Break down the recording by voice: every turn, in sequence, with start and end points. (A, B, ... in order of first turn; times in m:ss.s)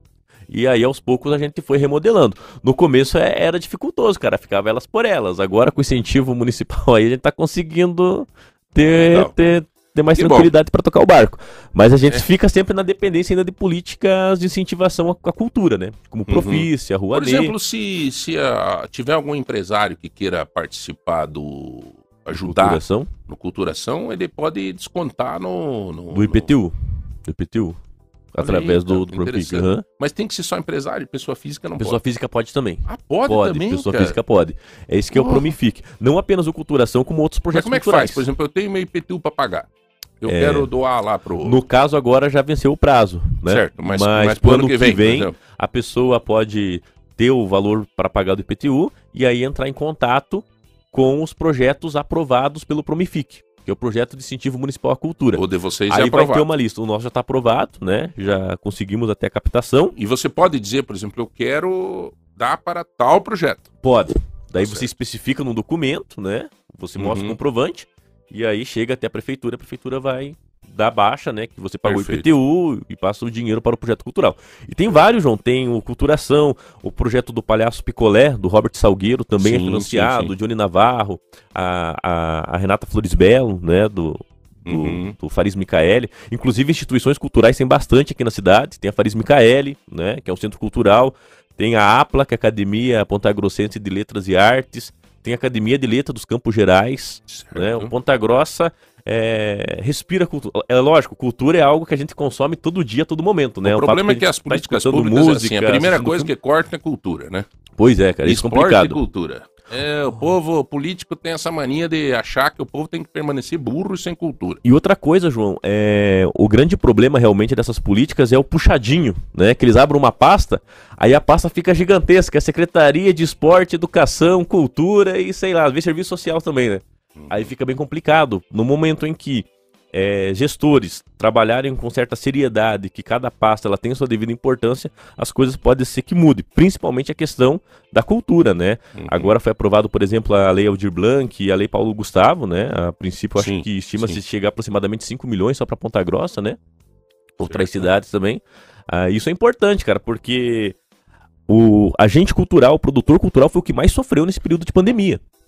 0:00.5-0:17.6 A
0:09.0-0:09.3 B
0:10.1-0:10.5 B
0:16.3-0:26.5 B
0:22.3-0:23.1 A
0:26.1-0:26.7 A
0:27.2-0:27.8 A
0:28.3-0:29.8 A
0:28.4-0:32.0 B
0:31.8-0:38.2 A
0:32.8-0:34.2 B
0:35.1-0:35.5 B
0:37.5-0:39.7 B
0:40.2-0:41.6 B
0:40.2-0:40.7 A
0:41.4-1:00.0 A
0:43.5-0:45.4 B
0:55.3-0:56.5 B
1:00.0-1:03.7 B
1:03.8-1:46.3 A
1:04.6-1:04.9 B
1:07.0-1:07.4 B
1:11.8-1:12.3 B
1:19.4-1:20.3 B
1:24.7-1:25.2 B
1:37.3-1:37.9 B
1:43.6-1:47.5 B
1:47.8-1:49.0 A
1:48.2-1:54.6 B
1:54.6-2:26.6 A
2:07.2-2:07.5 B
2:19.0-2:19.4 B
2:23.4-2:24.2 B
2:27.4-2:28.0 B
2:27.4-2:30.8 A
2:31.5-2:35.2 A